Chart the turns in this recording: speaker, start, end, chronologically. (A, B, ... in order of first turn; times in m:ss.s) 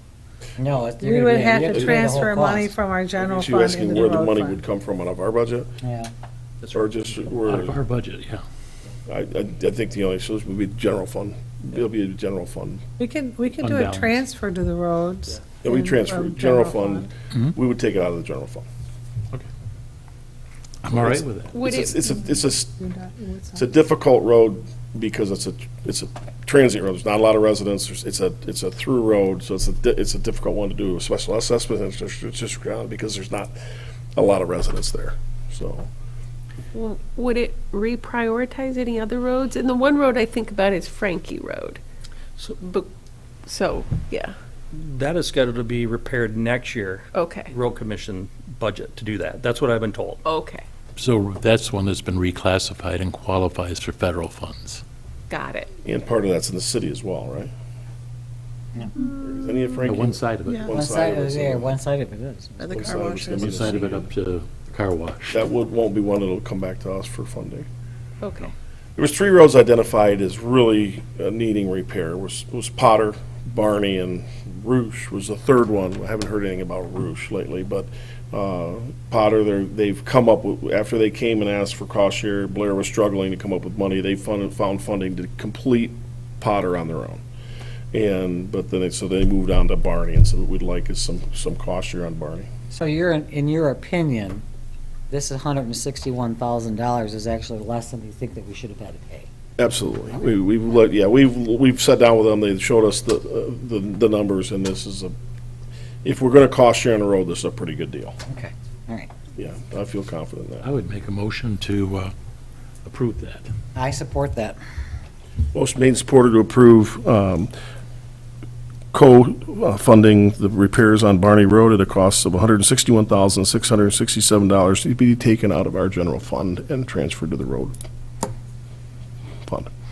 0:00.6-0:02.7 A
0:01.0-0:04.6 B
0:03.2-0:05.7 C
0:05.8-0:06.1 A
0:06.6-0:06.9 D
0:06.7-0:07.8 C
0:07.4-0:08.4 E
0:09.1-0:12.8 C
0:13.0-0:17.1 B
0:13.6-0:14.2 E
0:15.6-0:18.7 C
0:20.8-0:21.6 E
0:20.9-0:22.8 C
0:21.5-0:22.0 F
0:22.0-0:23.7 B
0:23.5-0:33.5 C
0:34.1-0:35.9 C
0:36.7-0:41.8 F
0:42.6-0:42.9 F
0:43.4-0:44.3 F
0:44.7-0:50.2 D
0:47.1-0:47.5 F
0:50.2-0:50.6 F
0:51.0-0:54.8 E
0:55.3-0:55.7 F
0:55.8-0:57.5 C
0:59.1-1:01.7 C
0:59.8-1:00.8 E
1:00.7-1:03.0 A
1:02.7-1:04.0 C
1:03.2-1:05.4 E
1:05.3-1:07.7 C
1:08.2-1:08.5 F
1:09.0-1:27.2 C
1:27.9-1:32.5 C
1:32.7-1:34.4 A
1:35.1-1:39.3 A
1:39.6-1:45.1 C
1:46.0-1:48.2 C
1:48.3-1:49.1 A
1:49.4-1:50.7 C
1:50.6-1:52.1 E
1:52.8-1:53.5 E
1:53.8-1:54.6 A
1:55.5-1:57.5 C
1:58.9-2:07.8 C